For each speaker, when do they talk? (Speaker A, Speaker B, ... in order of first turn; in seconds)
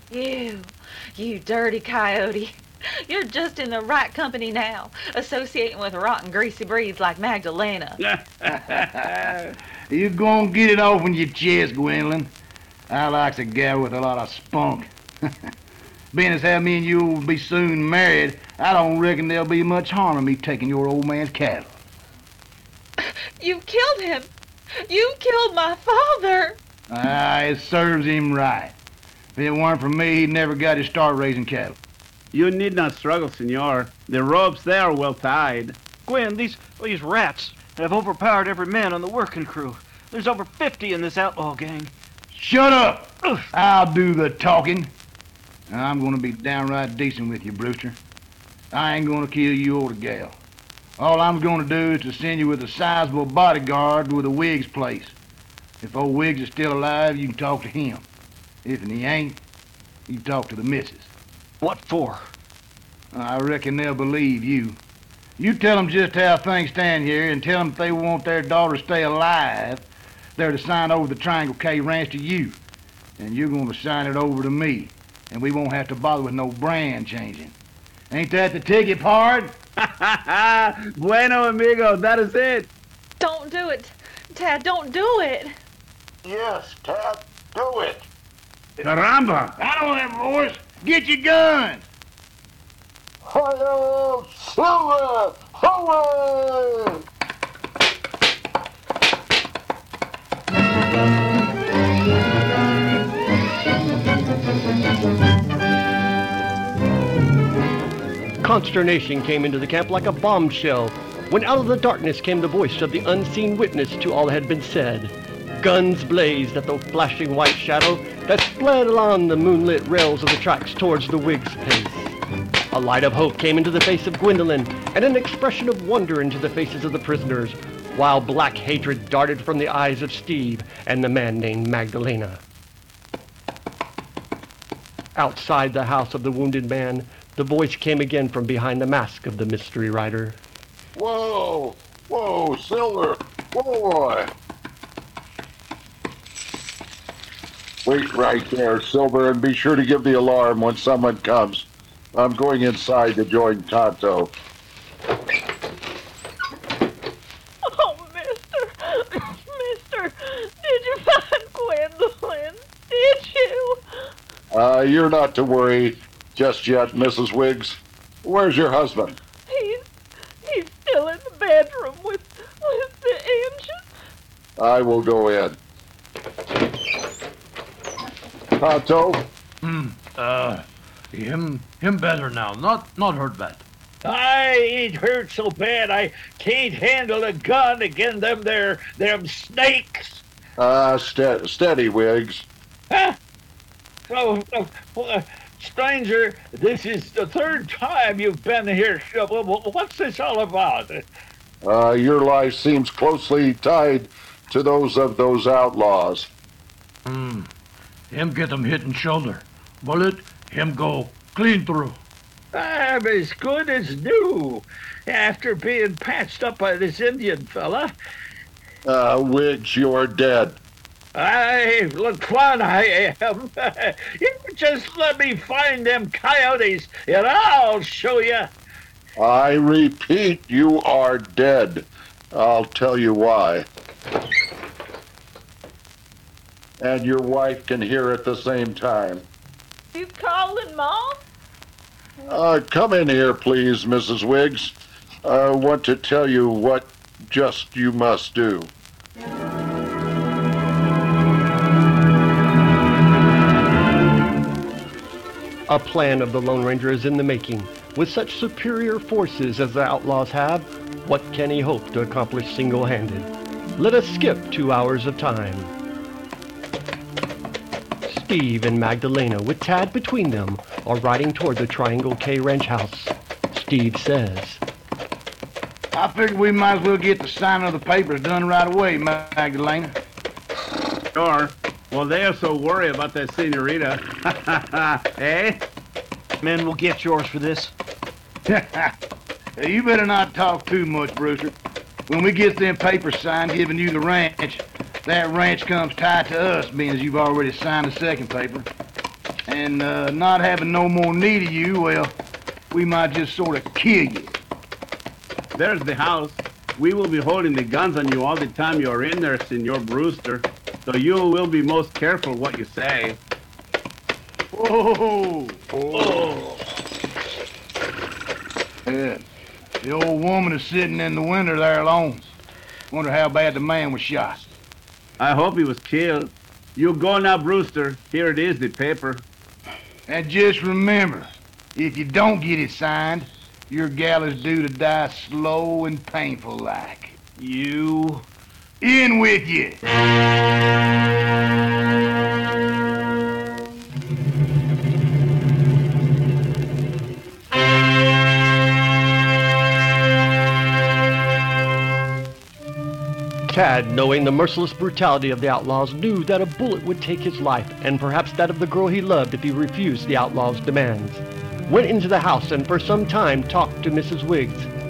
Speaker A: 0.1-8.0, 23.0-24.3, 24.9-26.6, 83.2-85.5
Speaker B: 8.0-9.5, 32.3-35.8, 79.8-82.7, 88.8-89.6, 281.1-285.6, 305.5-313.2, 325.2-329.2
Speaker C: 8.5-9.1, 9.9-12.3, 12.9-14.9, 16.1-21.7, 26.9-28.7, 29.4-31.8, 42.3-44.9, 45.7-48.0, 48.7-50.4, 51.0-55.1, 55.8-58.0, 58.6-59.4, 60.1-61.1, 63.1-64.8, 65.4-69.8, 70.4-72.6, 73.2-77.5, 78.1-79.5, 89.6-91.8, 275.9-279.9, 288.5-288.9, 289.6-291.5, 292.1-298.7, 299.5-302.1, 302.7-304.3, 314.5-316.4, 318.9-319.2, 319.8-322.3, 322.9-324.4, 330.1-337.1, 338.8-339.8
Speaker D: 36.0-41.9, 61.6-62.3, 286.4-287.7, 337.4-338.2
Speaker E: 86.2-88.0, 93.2-97.0, 140.9-144.3, 147.8-154.3, 164.5-169.2, 174.6-175.6, 178.6-179.2, 190.6-192.4, 201.6-206.3, 218.8-220.6, 229.2-233.7, 236.8-239.2, 242.3-248.7
Speaker F: 108.4-122.2, 122.7-132.4, 135.2-140.4, 255.7-265.7, 268.0-274.6, 353.5-364.7
Speaker G: 157.6-163.8, 169.5-169.8, 170.4-173.8, 239.9-241.2
Speaker H: 179.6-183.6, 207.1-207.5, 208.1-212.0
Speaker I: 184.0-190.2, 192.9-193.2, 194.1-201.0, 212.5-217.9, 221.1-228.5